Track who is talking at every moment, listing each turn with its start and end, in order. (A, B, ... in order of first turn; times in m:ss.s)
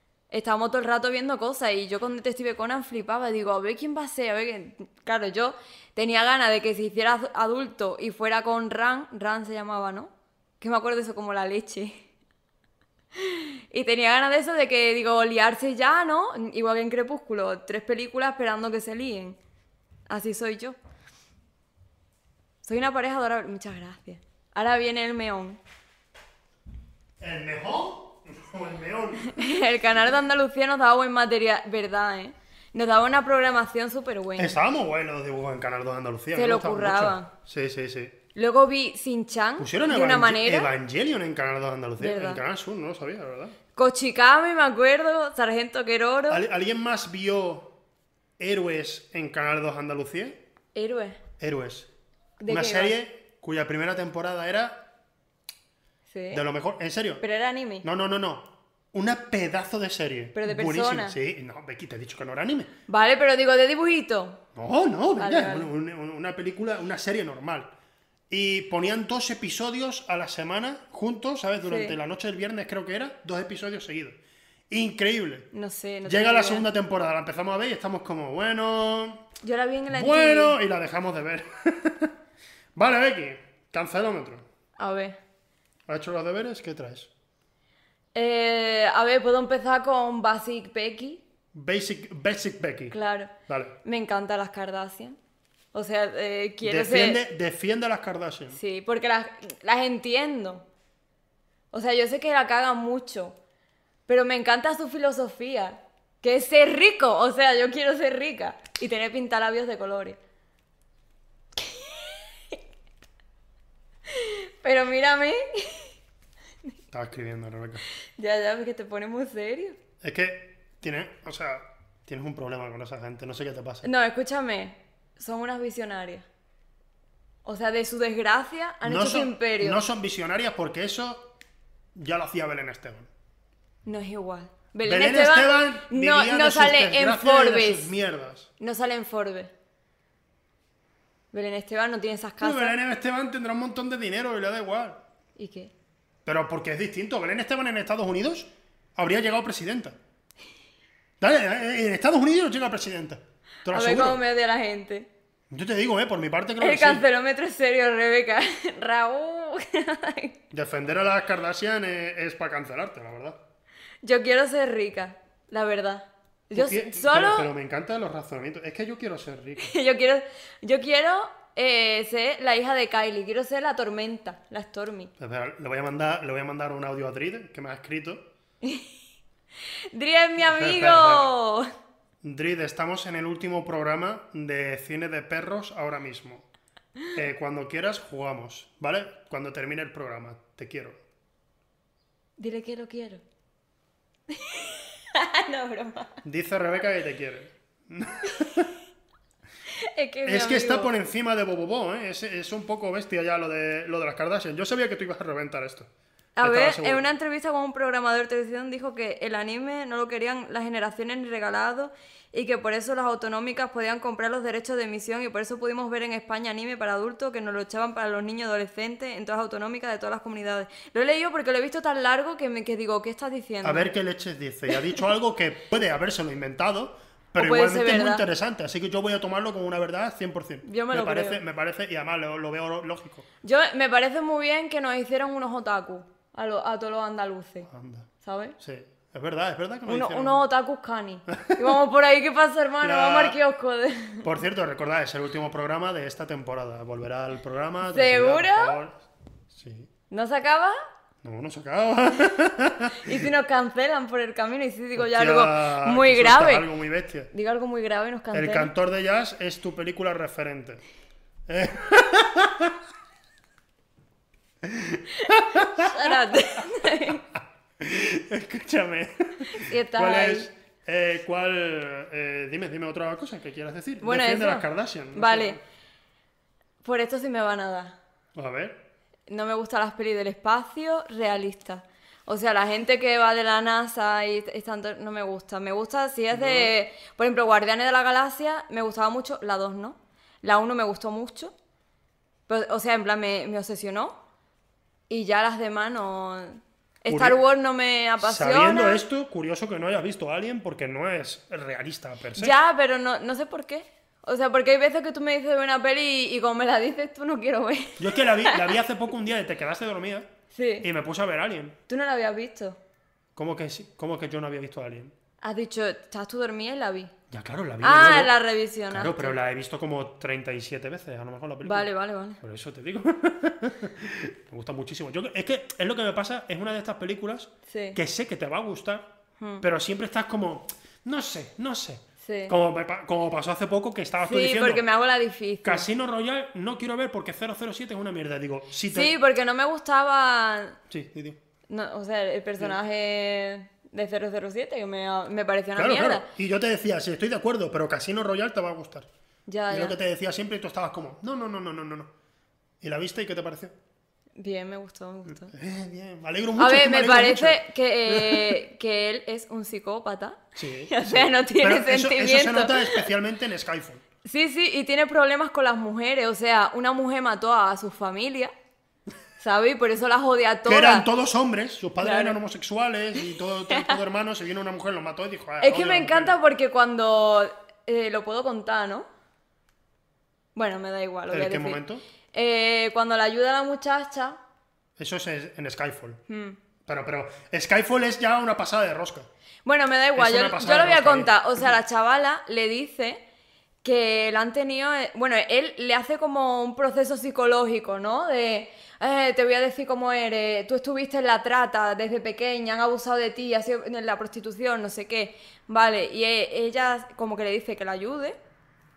0:00.3-0:12.0 A
0:13.2-0:19.4 A
0:20.1-0:20.8 A
0:22.6-0:25.6 A
0:27.2-0:29.3 B
0:29.3-0:34.6 A
0:34.4-0:38.2 B
0:36.4-0:37.3 A
0:38.4-0:40.7 A
0:39.6-0:43.6 B
0:42.0-0:42.4 A
0:43.8-0:46.4 A
0:46.3-0:47.7 B
0:48.4-0:50.4 B
0:50.8-0:51.2 A
0:51.4-0:51.9 B
0:52.4-0:53.0 A
0:52.5-0:54.8 B
0:56.1-0:56.4 A
0:56.3-0:57.2 B
0:57.2-0:57.8 A
0:57.8-1:02.7 B
1:00.4-1:01.2 A
1:02.9-1:04.4 A
1:04.6-1:07.7 B
1:05.2-1:05.7 A
1:08.3-1:14.2 B
1:11.7-1:12.0 A
1:14.7-1:15.5 B
1:15.5-1:16.7 A
1:16.1-1:19.2 B
1:19.4-1:20.5 A
1:19.9-1:22.1 B
1:22.8-1:24.5 B
1:24.8-1:25.2 A
1:25.9-1:27.1 B
1:28.2-1:31.2 A
1:31.5-1:33.0 B
1:32.9-1:33.3 A
1:33.5-1:33.8 B
1:33.8-1:35.2 A
1:35.7-1:37.2 A
1:36.6-1:38.6 B
1:38.5-1:40.6 A
1:41.7-1:43.4 A
1:44.1-1:50.2 A
1:51.6-1:52.6 A
1:54.1-1:55.9 A
1:56.9-1:57.8 B
1:58.2-1:59.8 A
2:00.0-2:03.9 B
2:03.8-2:06.3 A
2:07.4-2:09.8 A
2:08.8-2:11.3 B
2:11.9-2:13.1 B
2:13.9-2:17.9 A
2:14.8-2:18.5 B
2:18.6-2:19.5 A
2:21.3-2:22.8 A
2:22.4-2:25.0 B
2:25.4-2:25.7 A
2:26.2-2:30.0 B
2:31.2-2:34.2 B
2:33.7-2:35.1 A
2:35.5-2:37.0 B
2:36.6-2:40.4 A
2:40.5-2:43.4 B
2:44.0-2:47.5 A
2:46.5-2:49.7 B
2:49.6-2:55.1 A
2:55.2-2:58.2 B
2:58.6-2:58.9 A
2:59.9-3:01.7 A
3:00.4-3:01.3 B
3:02.2-3:06.4 B
3:07.1-3:11.0 B
3:12.4-3:13.2 A
3:14.3-3:16.2 A
3:16.2-3:18.8 B
3:19.8-3:20.9 A
3:20.2-3:25.9 B
3:26.4-3:43.9 A
3:26.4-3:27.0 B
3:43.6-3:53.3 B
3:47.4-3:48.2 A
3:50.6-3:51.4 A
3:53.4-3:57.7 A
3:57.7-3:58.1 B
3:58.2-3:58.6 A
3:58.6-4:00.4 B
3:59.9-4:04.3 A
4:01.3-4:01.7 B
4:02.8-4:03.4 B
4:04.2-4:09.9 B
4:07.9-4:08.8 A
4:10.1-4:10.8 A
4:11.2-4:13.3 B
4:13.0-4:16.7 A
4:15.0-4:17.3 B
4:17.3-4:18.7 A
4:18.3-4:20.8 B
4:21.5-4:22.8 B
4:24.6-4:35.6 B
4:25.2-4:27.2 A
4:29.5-4:30.5 A
4:34.0-4:35.6 A
4:36.8-4:38.0 A
4:38.4-4:38.8 B
4:39.3-4:51.5 A
4:46.3-4:46.7 B
4:52.5-4:54.2 A
4:55.1-4:59.0 A
4:57.1-4:57.4 B
4:58.2-5:02.6 B
5:02.4-5:08.8 A
5:08.0-5:10.3 B
5:10.5-5:10.9 A
5:10.8-5:11.8 B
5:11.9-5:12.8 A
5:13.4-5:15.1 B
5:15.4-5:17.1 A
5:17.3-5:18.4 B
5:17.8-5:19.4 A
5:18.9-5:21.9 B
5:21.6-5:22.4 A
5:22.4-5:29.1 B
5:27.7-5:28.0 A
5:29.4-5:29.6 A
5:29.6-5:34.8 B
5:32.2-5:32.5 A
5:34.2-5:35.9 A
5:35.6-5:39.2 B
5:38.9-5:40.8 A
5:40.9-5:41.4 B
5:41.7-5:46.3 A
5:45.8-5:49.1 B
5:49.5-5:50.0 A
5:49.7-5:52.1 B
5:52.8-5:53.7 B
5:54.4-5:55.5 A
5:55.4-5:58.6 B
5:56.6-6:03.1 A
6:00.6-6:04.0 B
6:04.2-6:08.5 A
6:09.4-6:11.1 A
6:10.7-6:16.4 B
6:12.0-6:12.4 A
6:13.7-6:14.0 A
6:15.6-6:19.1 A
6:20.6-6:21.8 A
6:21.3-6:22.0 B
6:22.3-6:24.4 A
6:25.0-6:26.2 B
6:26.3-6:26.6 A
6:26.8-6:29.3 B
6:29.6-6:33.2 A
6:30.2-6:31.4 B
6:33.8-6:48.4 A